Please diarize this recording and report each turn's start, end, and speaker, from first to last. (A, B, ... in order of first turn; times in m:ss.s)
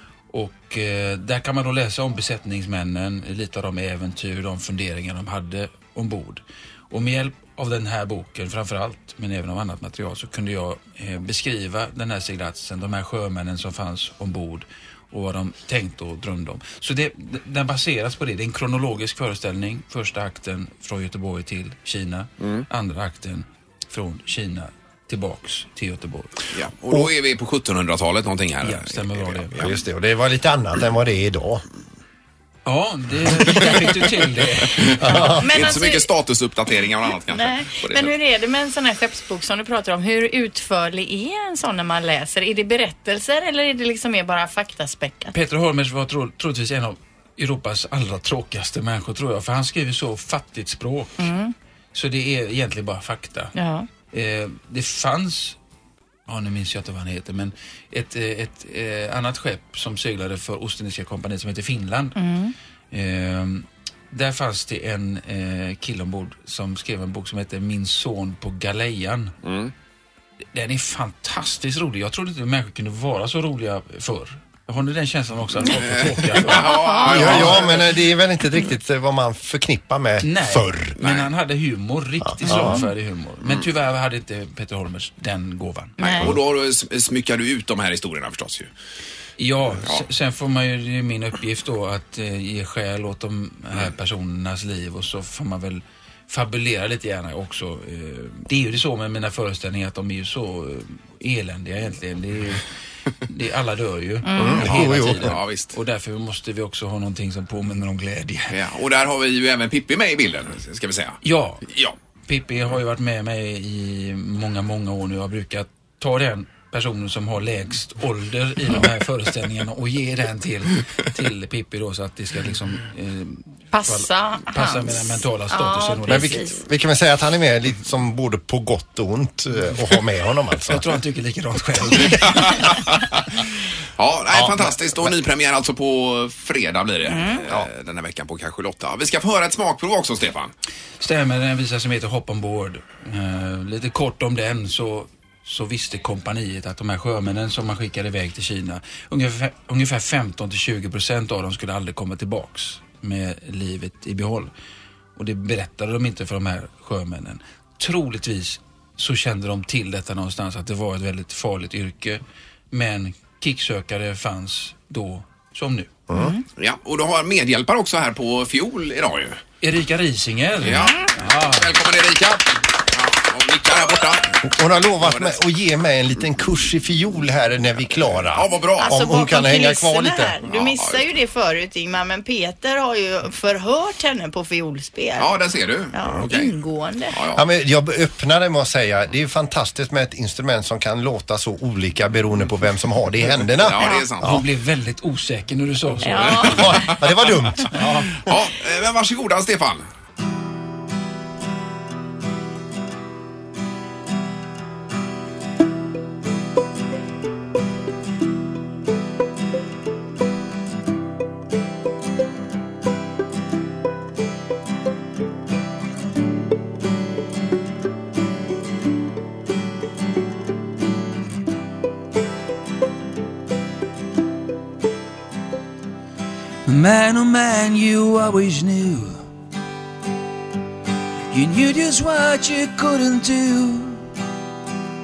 0:00.3-0:26.3 A
0:22.4-0:22.7 B
0:26.5-0:29.7 B
0:28.6-0:29.6 A
0:29.6-0:31.6 C
0:32.6-0:35.4 A
0:34.8-0:38.1 B
0:35.0-0:35.6 C
0:35.4-0:36.1 D
0:37.3-0:45.3 D
0:45.3-0:51.3 A
0:51.2-0:51.5 D
0:51.9-0:53.5 A
0:53.6-0:53.9 D
0:54.1-0:55.6 A
0:56.3-1:02.2 A
1:02.2-1:02.5 D
1:02.9-1:09.3 A
1:09.4-1:09.7 B
1:10.5-1:17.6 A
1:15.7-1:17.9 B
1:16.6-1:17.3 D
1:17.1-1:21.0 C
1:20.2-1:26.0 A
1:21.0-1:21.3 B
1:22.2-1:22.8 C
1:22.5-1:22.8 D
1:26.0-1:26.3 D
1:26.0-1:28.7 B
1:29.4-1:42.6 A
1:43.3-1:48.6 A
1:44.2-1:44.7 D
1:44.4-1:45.4 C
1:44.5-1:45.7 B
1:48.5-1:52.0 B
1:51.2-1:51.6 A
1:52.3-2:06.4 A
2:03.7-2:06.6 D
2:06.1-2:10.8 C
2:10.7-2:12.8 A
2:12.2-2:13.0 B
2:14.0-2:20.5 B
2:14.3-2:14.7 C
2:17.1-2:17.4 D
2:21.0-2:34.5 A
2:35.2-2:45.9 A
2:46.1-2:46.3 C
2:46.1-2:46.4 D
2:46.6-2:49.4 B
2:49.6-2:51.7 A
2:50.6-2:54.5 B
2:54.4-3:00.4 C
2:55.0-2:55.4 B
2:58.3-2:58.9 B
2:58.8-3:05.3 D
3:00.4-3:01.0 B
3:05.2-3:06.5 B
3:05.9-3:07.2 D
3:07.1-3:07.5 B
3:07.4-3:14.4 C
3:13.6-3:14.4 B
3:13.8-3:14.0 D
3:14.2-3:16.5 A
3:16.0-3:16.8 D
3:16.1-3:17.4 B
3:16.4-3:17.8 C
3:17.7-3:18.1 A
3:18.2-3:19.9 B
3:46.6-3:49.2 E
3:51.3-3:54.1 E